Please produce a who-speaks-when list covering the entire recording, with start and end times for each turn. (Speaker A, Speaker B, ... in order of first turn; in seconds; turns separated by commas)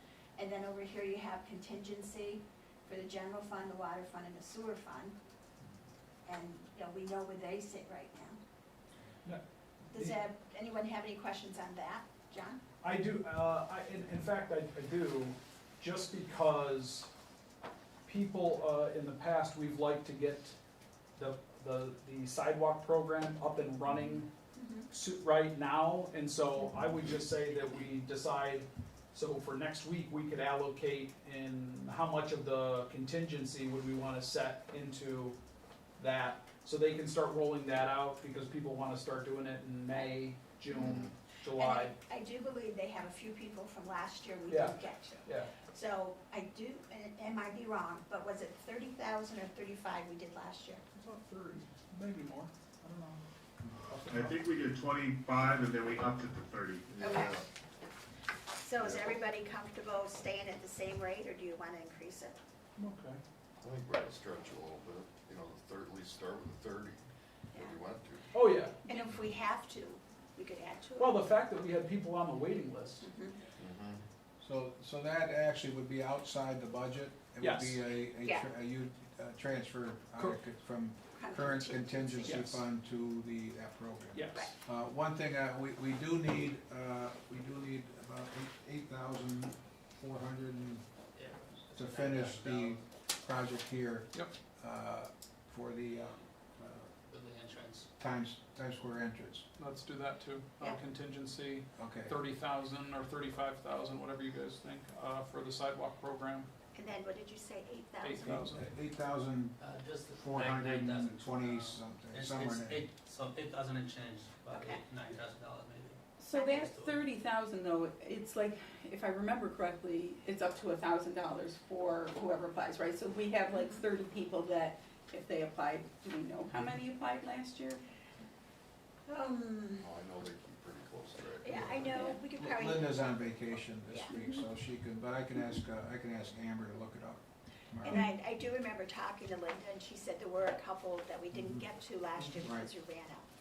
Speaker A: 0.4-5.1, Speaker A: 6.2-8.4, Speaker A: 9.9-12.6, Speaker B: 12.8-17.1, Speaker B: 18.1-20.6, Speaker B: 21.1-24.3, Speaker A: 24.6-24.8, Speaker B: 24.9-35.4, Speaker B: 36.0-41.9, Speaker A: 40.7-50.8, Speaker C: 40.7-41.1, Speaker B: 44.5-45.5, Speaker B: 50.9-53.2, Speaker B: 53.9-54.5, Speaker D: 54.1-56.9, Speaker C: 56.9-57.4, Speaker A: 57.0-57.4, Speaker A: 58.5-62.4, Speaker C: 58.8-59.1, Speaker B: 62.8-63.2, Speaker C: 63.6-68.3, Speaker B: 68.3-68.8, Speaker A: 68.8-71.2, Speaker B: 71.0-73.1, Speaker A: 73.0-73.3, Speaker C: 73.6-74.0, Speaker E: 74.4-90.8, Speaker B: 77.4-77.8, Speaker A: 78.2-78.5, Speaker A: 81.2-82.5, Speaker B: 82.2-82.6, Speaker B: 84.1-84.5, Speaker F: 91.1-92.9, Speaker E: 91.7-96.9, Speaker F: 97.1-97.9, Speaker E: 98.0-99.5, Speaker B: 99.6-106.5, Speaker E: 101.8-102.2, Speaker A: 106.7-108.5, Speaker B: 108.0-108.6, Speaker E: 108.2-112.9, Speaker F: 109.6-116.0, Speaker A: 114.5-114.8, Speaker G: 116.2-127.8, Speaker A: 116.3-116.7, Speaker F: 116.5-117.0, Speaker A: 123.4-123.8, Speaker A: 129.1-129.9, Speaker C: 129.8-132.1, Speaker A: 131.4-134.2, Speaker G: 131.5-132.1, Speaker E: 132.3-138.1, Speaker G: 134.1-134.4, Speaker A: 137.8-143.3, Speaker E: 141.3-141.7, Speaker E: 142.4-142.7